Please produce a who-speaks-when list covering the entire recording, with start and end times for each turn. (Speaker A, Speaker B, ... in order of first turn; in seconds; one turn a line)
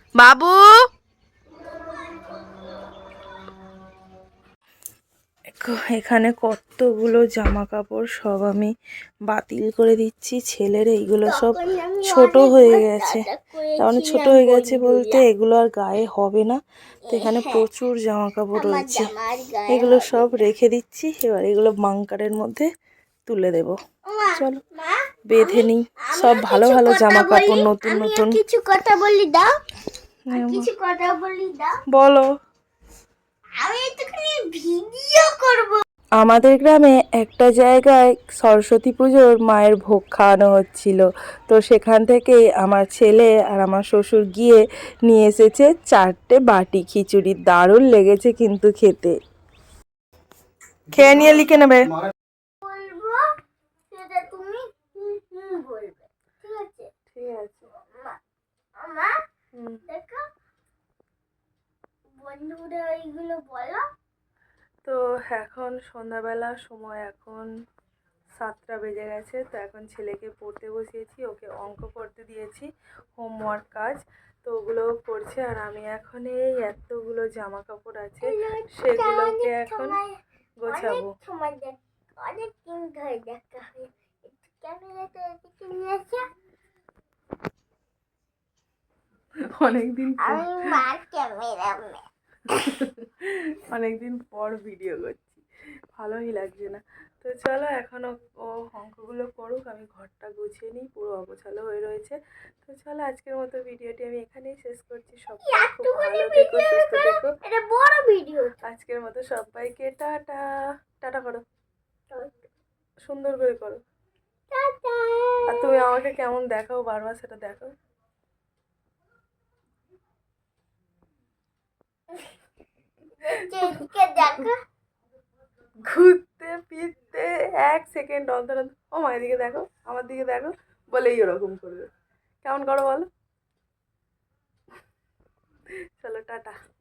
Speaker A: 0.1-0.7
Speaker A: 5.6-8.7
Speaker A: 9.3-13.2
Speaker B: 11.2-15.2
Speaker A: 13.8-19.1
Speaker B: 17.1-17.7
Speaker B: 18.5-20.4
Speaker A: 19.7-22.7
Speaker A: 23.2-23.8
Speaker B: 24.1-29.5
Speaker A: 24.3-24.6
Speaker A: 25.3-28.4
Speaker A: 30.3-30.7
Speaker B: 30.3-31.7
Speaker A: 31.9-32.2
Speaker B: 33.6-35.8
Speaker A: 36.2-49.1
Speaker A: 50.9-51.9
Speaker B: 52.6-53.2
Speaker B: 53.9-56.9
Speaker A: 57.1-57.7
Speaker B: 57.8-58.2
Speaker B: 58.8-59.1
Speaker A: 59.5-59.8
Speaker B: 59.9-60.2
Speaker B: 62.2-63.8
Speaker A: 64.8-67.5
Speaker A: 68.4-80.0
Speaker B: 78.2-80.1
Speaker A: 80.6-81.1
Speaker B: 80.7-86.2
Speaker A: 89.5-90.5
Speaker B: 90.2-92.0
Speaker A: 92.5-95.4
Speaker A: 95.9-107.3
Speaker B: 105.4-108.6
Speaker A: 108.6-110.4
Speaker A: 111.0-111.4
Speaker B: 112.1-112.3
Speaker A: 113.0-113.8
Speaker B: 114.5-115.8
Speaker A: 115.5-117.7
Speaker B: 123.2-124.6
Speaker A: 125.8-131.9
Speaker A: 132.4-133.1
Speaker A: 136.0-136.5